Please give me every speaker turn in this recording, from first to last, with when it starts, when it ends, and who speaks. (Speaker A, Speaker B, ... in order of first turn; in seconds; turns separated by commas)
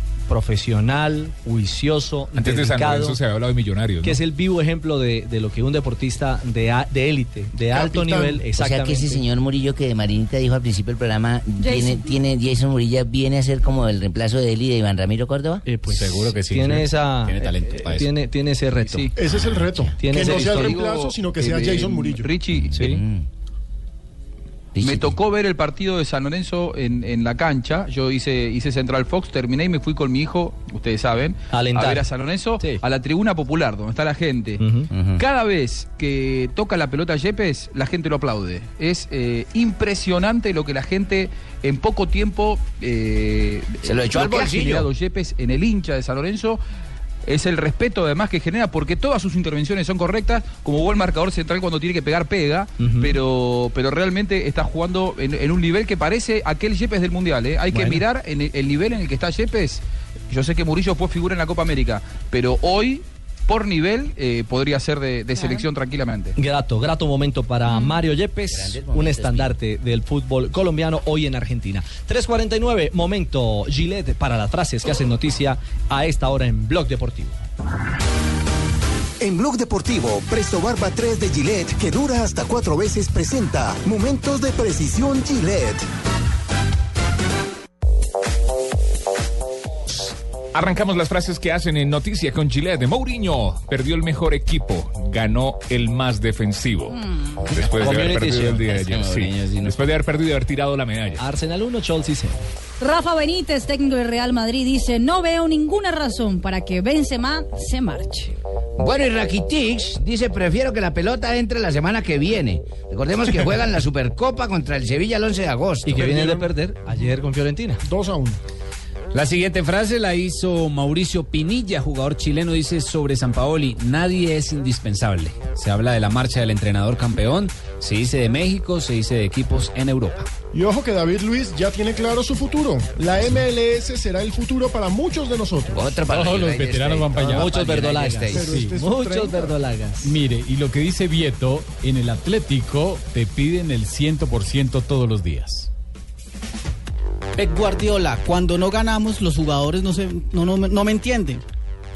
Speaker A: 0.3-3.2, Speaker B: 2.4-4.2, Speaker A: 4.0-9.2, Speaker C: 7.7-8.5, Speaker D: 8.5-15.6, Speaker E: 11.6-12.1, Speaker A: 15.7-19.1, Speaker F: 15.9-16.8, Speaker G: 17.3-18.1, Speaker H: 18.8-19.1, Speaker C: 19.2-22.3, Speaker D: 19.5-19.9, Speaker A: 20.0-20.8, Speaker H: 20.1-22.8, Speaker A: 22.7-23.0, Speaker D: 22.8-23.2, Speaker H: 24.8-34.6, Speaker A: 31.5-32.0, Speaker A: 34.6-34.9, Speaker I: 34.9-35.2, Speaker H: 35.2-46.6, Speaker I: 43.8-44.9, Speaker H: 47.2-66.3, Speaker A: 52.8-53.1, Speaker A: 57.7-58.0, Speaker E: 65.3-65.7, Speaker A: 66.4-77.4, Speaker E: 67.7-68.0, Speaker I: 68.8-69.5, Speaker J: 79.2-85.9, Speaker B: 89.9-97.0, Speaker E: 97.0-97.3, Speaker B: 97.5-101.2, Speaker A: 97.7-98.7, Speaker I: 98.7-99.8, Speaker A: 101.2-102.4, Speaker E: 102.8-108.3, Speaker I: 108.8-116.1, Speaker A: 115.8-117.8, Speaker C: 115.9-116.5, Speaker C: 117.8-118.4, Speaker G: 119.1-130.3, Speaker C: 130.5-136.0, Speaker I: 135.8-138.5, Speaker F: 136.0-137.5, Speaker A: 137.3-140.2, Speaker C: 138.3-139.6, Speaker F: 138.4-138.8, Speaker F: 140.0-145.7, Speaker K: 147.4-151.4